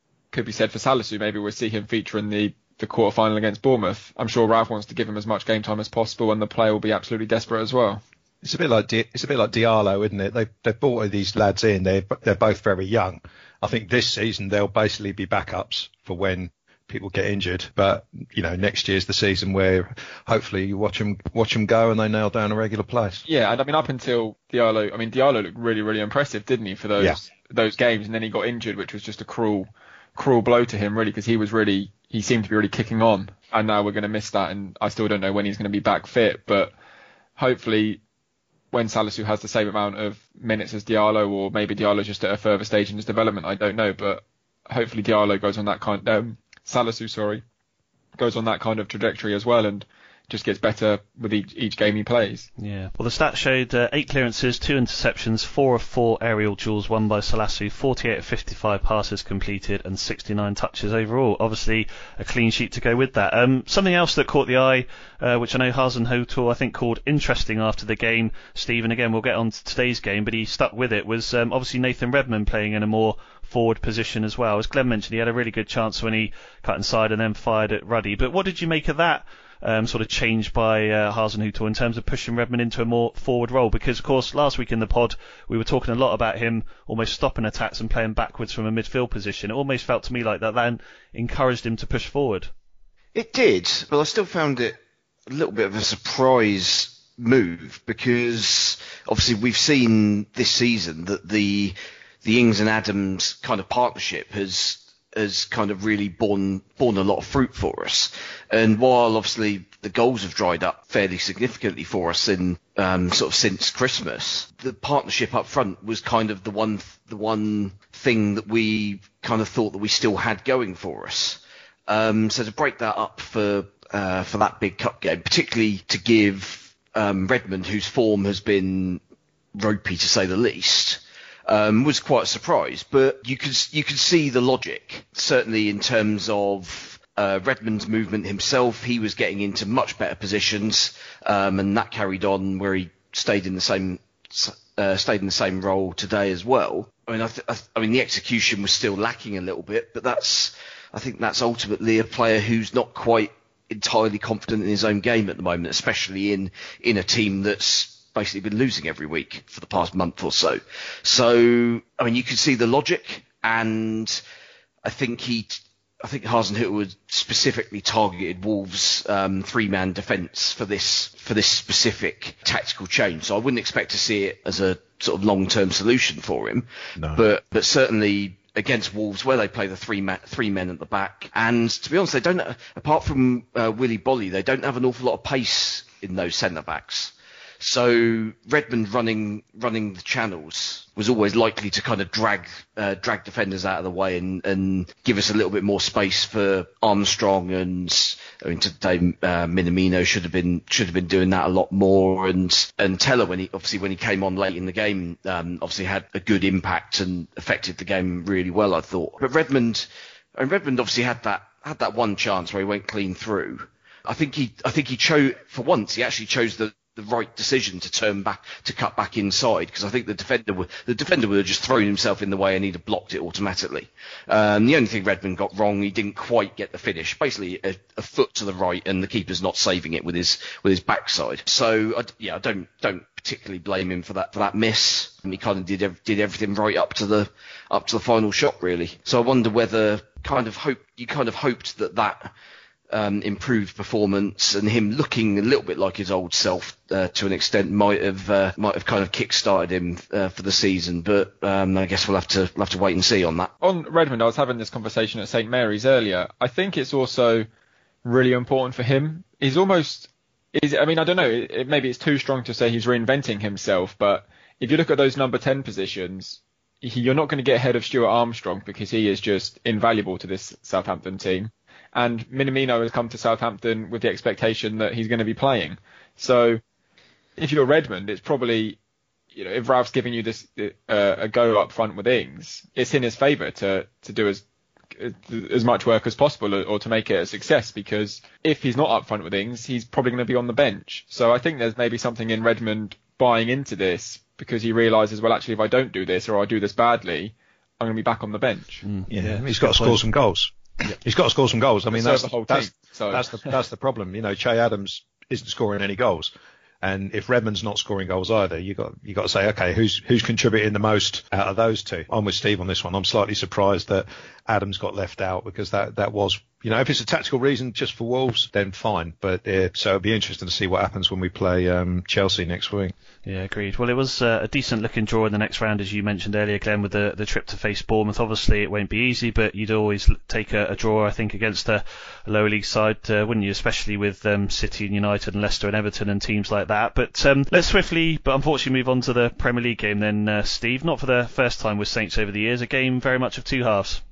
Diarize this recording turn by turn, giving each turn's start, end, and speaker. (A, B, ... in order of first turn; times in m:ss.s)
0:00.3-0:08.0 A
0:08.4-0:23.2 B
0:23.2-0:36.7 A
0:37.4-0:38.0 A
0:38.7-0:47.4 A
0:48.2-0:52.5 A
0:52.6-1:32.5 C
1:33.1-1:34.8 D
1:35.3-2:09.0 D
2:09.6-2:44.2 D
2:44.8-4:02.3 D
2:57.0-2:57.2 B
4:02.9-4:13.5 D
4:13.6-4:17.5 A
4:18.0-4:36.6 A
4:37.4-4:38.8 A
4:39.3-4:44.4 A
4:44.9-4:58.8 A
4:58.8-5:00.0 C
4:59.1-5:06.3 B
5:01.9-5:03.5 A
5:06.8-5:22.9 B
5:23.2-5:44.0 C